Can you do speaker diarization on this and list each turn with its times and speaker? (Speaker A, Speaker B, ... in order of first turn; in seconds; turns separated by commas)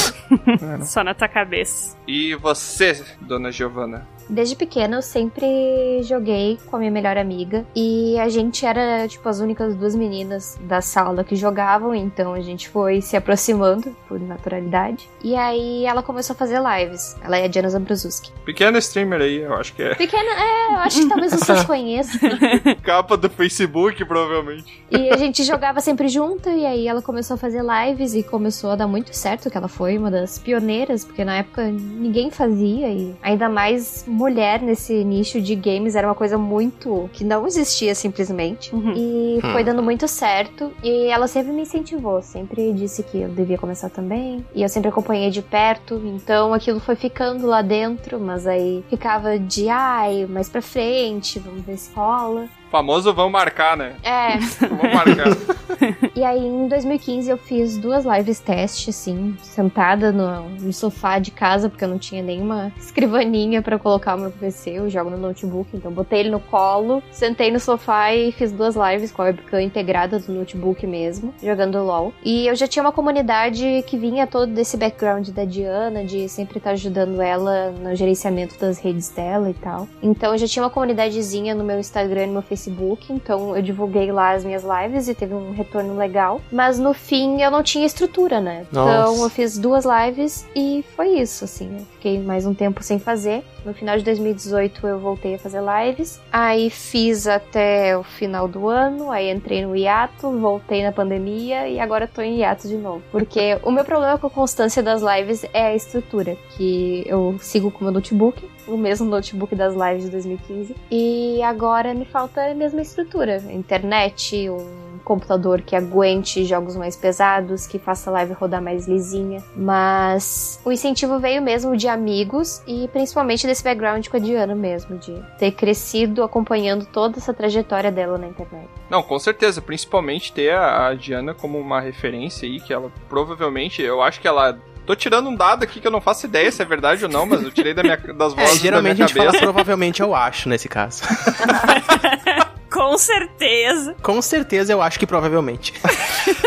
Speaker A: 0.3-1.9, Speaker B: 0.6-0.9, Speaker B: 2.1-4.1, Speaker C: 4.3-18.3, Speaker B: 18.4-20.0, Speaker C: 20.0-22.4, Speaker A: 21.0-21.4, Speaker A: 22.2-22.7, Speaker B: 22.8-24.7, Speaker C: 24.9-52.5, Speaker A: 38.7-39.0, Speaker D: 39.4-39.7, Speaker B: 52.7-54.0, Speaker C: 54.0-54.5, Speaker B: 54.6-55.4, Speaker C: 56.1-128.7, Speaker D: 88.7-89.3, Speaker B: 128.9-139.5, Speaker D: 138.3-141.3, Speaker A: 141.7-143.9, Speaker D: 144.0-145.8